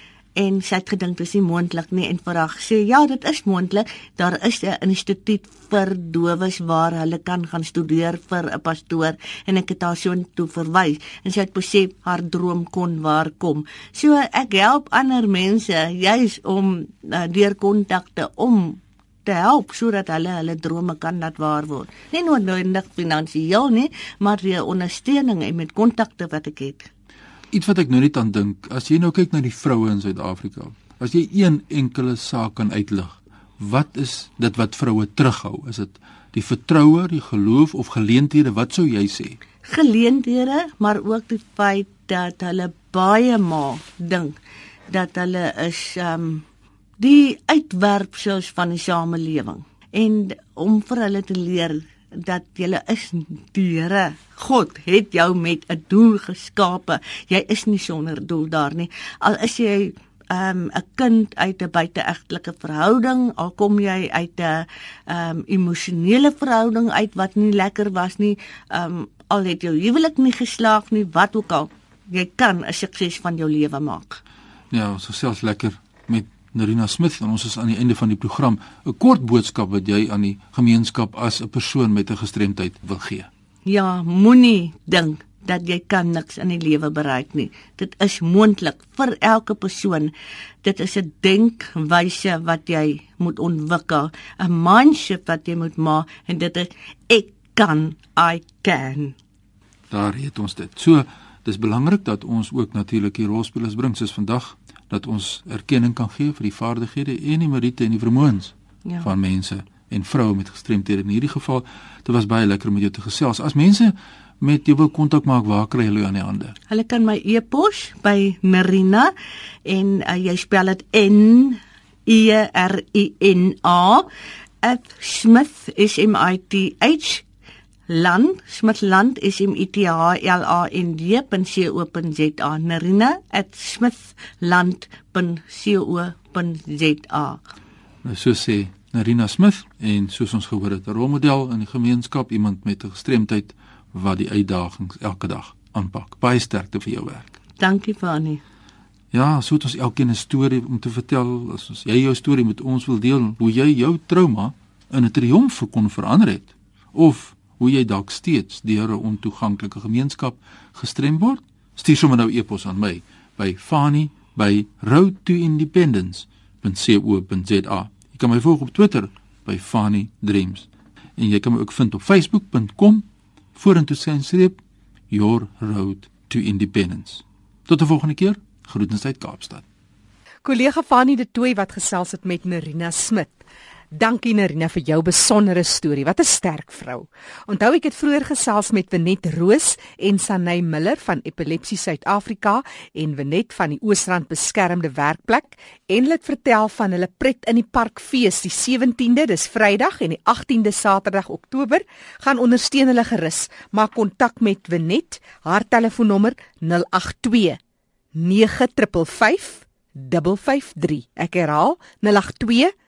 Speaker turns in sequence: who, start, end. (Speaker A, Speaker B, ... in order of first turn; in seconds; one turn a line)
Speaker A: 0.3-26.9
Speaker B: 27.5-39.4
Speaker A: 39.6-44.4
Speaker A: 44.9-46.4
Speaker A: 47.0-74.2
Speaker B: 74.7-83.3
Speaker A: 83.7-90.1
Speaker A: 90.6-99.2
Speaker B: 99.9-116.5
Speaker A: 116.7-119.1
Speaker A: 119.7-124.1
Speaker A: 124.6-127.2
Speaker A: 127.9-137.4
Speaker B: 138.0-147.3
Speaker A: 147.6-148.4
Speaker B: 149.1-179.6
Speaker C: 180.4-183.4
Speaker C: 183.9-207.6
Speaker C: 208.1-212.7